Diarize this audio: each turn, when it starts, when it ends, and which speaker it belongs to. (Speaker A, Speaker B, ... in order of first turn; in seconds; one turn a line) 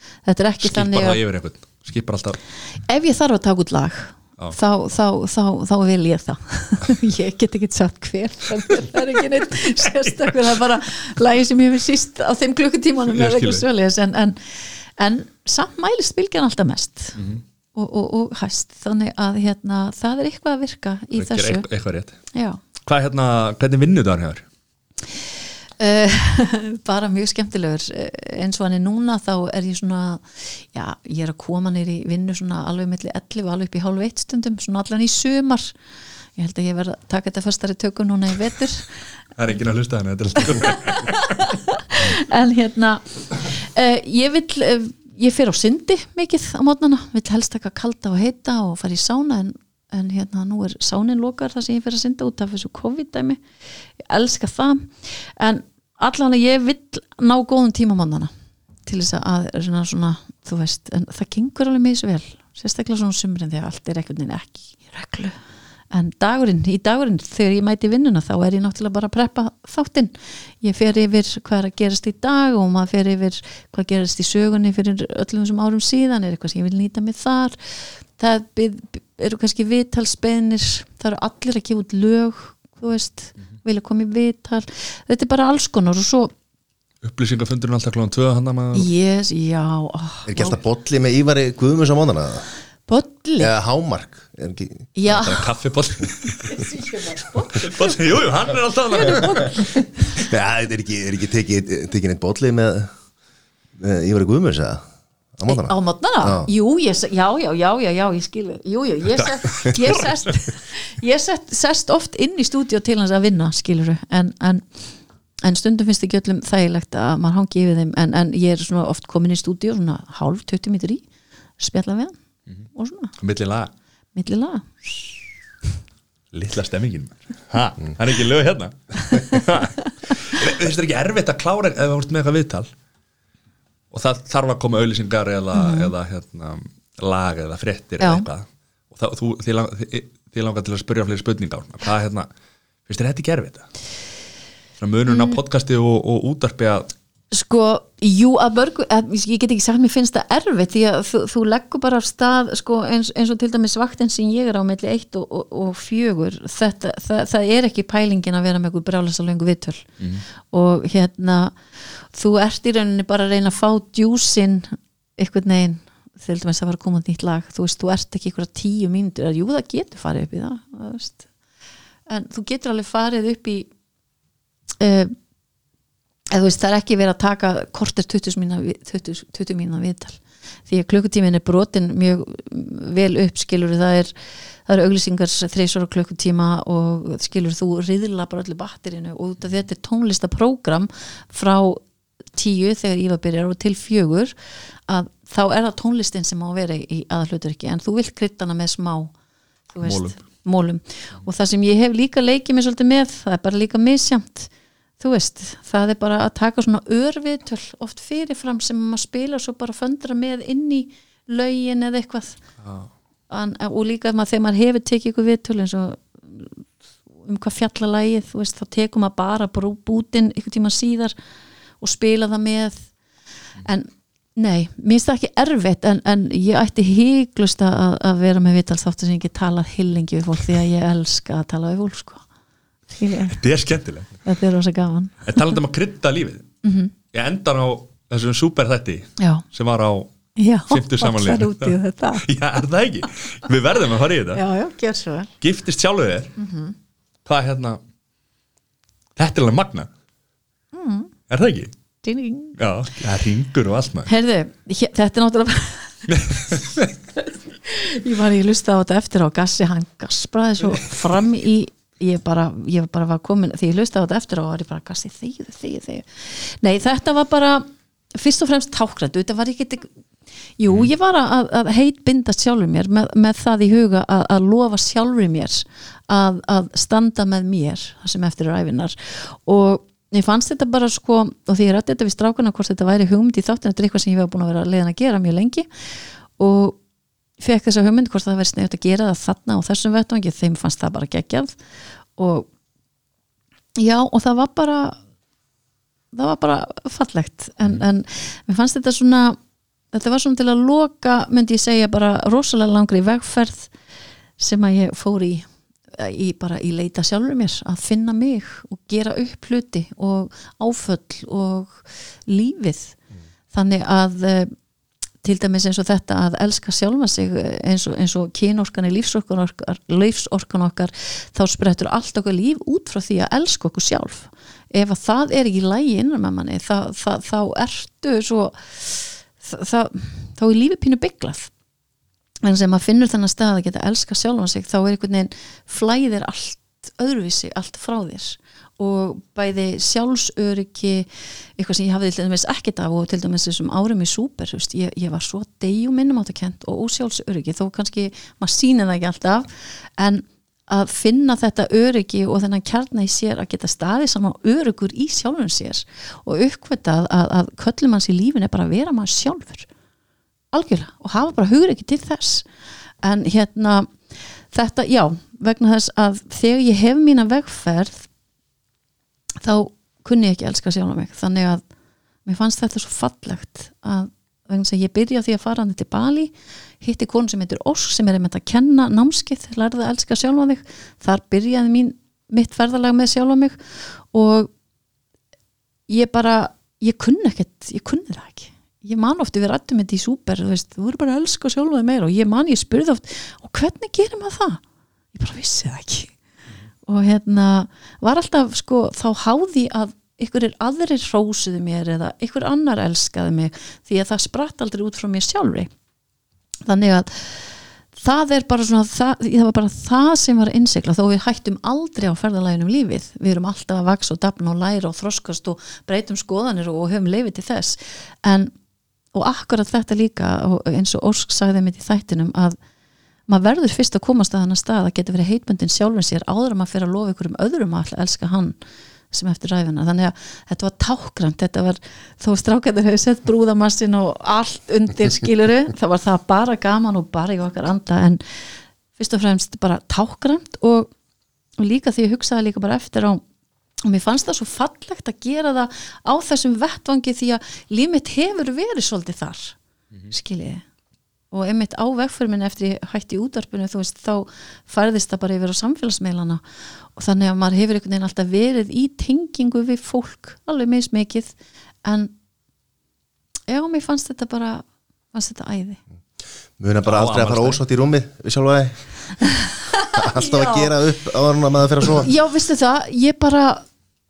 Speaker A: 0.2-1.2
Speaker B: 0.6-2.4
Speaker A: 2.9-17.2
Speaker B: 13.1-13.6
Speaker B: 17.2-17.4
Speaker A: 17.8-21.6
Speaker B: 21.1-22.2
Speaker A: 22.3-22.6
Speaker B: 22.9-24.4
Speaker A: 25.8-35.7
Speaker A: 36.4-38.9
Speaker B: 39.4-41.4
Speaker A: 40.6-53.4
Speaker A: 54.0-58.3
Speaker A: 58.9-65.4
Speaker A: 65.9-77.6
Speaker A: 78.2-86.3
Speaker B: 87.0-88.9
Speaker A: 88.8-90.6
Speaker C: 90.3-92.5
Speaker A: 92.9-93.5
Speaker C: 93.4-94.9
Speaker A: 95.0-95.5
Speaker B: 95.1-96.7
Speaker A: 96.4-97.9
Speaker B: 97.5-99.6
Speaker A: 98.9-100.0
Speaker C: 100.2-102.9
Speaker C: 103.8-104.8
Speaker C: 105.4-106.5
Speaker A: 105.5-114.6
Speaker B: 109.2-110.2
Speaker A: 115.4-121.0
Speaker A: 121.6-122.2
Speaker A: 122.7-123.1
Speaker B: 123.2-123.7
Speaker A: 124.2-125.2
Speaker B: 126.3-132.7
Speaker B: 133.9-142.3
Speaker A: 135.6-135.9
Speaker A: 138.0-138.2
Speaker B: 142.9-143.7
Speaker B: 144.8-146.9
Speaker A: 145.1-145.4
Speaker A: 147.3-159.9
Speaker B: 160.0-160.2
Speaker A: 160.5-161.6
Speaker A: 162.1-171.2
Speaker A: 172.1-173.7
Speaker A: 174.8-175.1
Speaker A: 176.3-184.1
Speaker A: 184.7-191.8
Speaker A: 192.3-194.3
Speaker A: 194.9-199.1
Speaker A: 199.7-212.4
Speaker B: 199.8-200.1
Speaker B: 212.6-212.9
Speaker A: 213.3-216.6
Speaker A: 217.2-221.1
Speaker A: 221.8-222.9
Speaker A: 223.6-232.2
Speaker A: 232.9-233.4
Speaker B: 233.3-234.2
Speaker A: 234.2-235.3
Speaker B: 235.3-236.5
Speaker A: 236.6-236.9
Speaker B: 237.1-240.1
Speaker A: 239.2-239.4
Speaker A: 240.4-242.2
Speaker B: 240.7-244.4
Speaker A: 244.3-245.3
Speaker B: 245.4-246.3
Speaker A: 246.4-246.8
Speaker B: 247.3-247.8
Speaker B: 249.2-249.9
Speaker A: 250.7-251.1
Speaker B: 251.3-251.7
Speaker A: 252.0-252.6
Speaker B: 252.6-254.1
Speaker A: 254.1-256.6
Speaker B: 256.1-256.9
Speaker A: 257.7-267.6
Speaker A: 268.2-269.9
Speaker A: 270.6-285.7
Speaker A: 286.4-286.8
Speaker A: 287.4-291.6
Speaker A: 292.2-292.5
Speaker A: 293.8-295.0
Speaker A: 296.1-299.4
Speaker A: 299.9-303.7
Speaker A: 304.4-313.0
Speaker A: 313.5-314.5
Speaker A: 315.2-331.5
Speaker A: 332.4-359.7
Speaker A: 360.5-362.4
Speaker A: 363.0-363.9
Speaker A: 364.5-368.1
Speaker A: 369.4-371.6
Speaker A: 372.2-383.6
Speaker A: 384.1-384.5
Speaker A: 385.9-394.6
Speaker A: 395.1-396.1
Speaker A: 396.9-405.7
Speaker A: 406.7-407.4
Speaker A: 407.9-418.5
Speaker A: 419.1-422.6
Speaker A: 423.3-428.6
Speaker A: 429.1-438.2
Speaker A: 438.9-440.9
Speaker A: 441.6-443.2
Speaker A: 443.8-449.6
Speaker A: 450.1-450.6
Speaker A: 451.3-456.4
Speaker A: 457.0-461.3
Speaker A: 461.9-462.1
Speaker A: 463.5-465.8
Speaker C: 466.6-468.8
Speaker B: 466.8-467.6
Speaker A: 469.7-470.7
Speaker C: 469.9-472.1
Speaker A: 472.0-473.6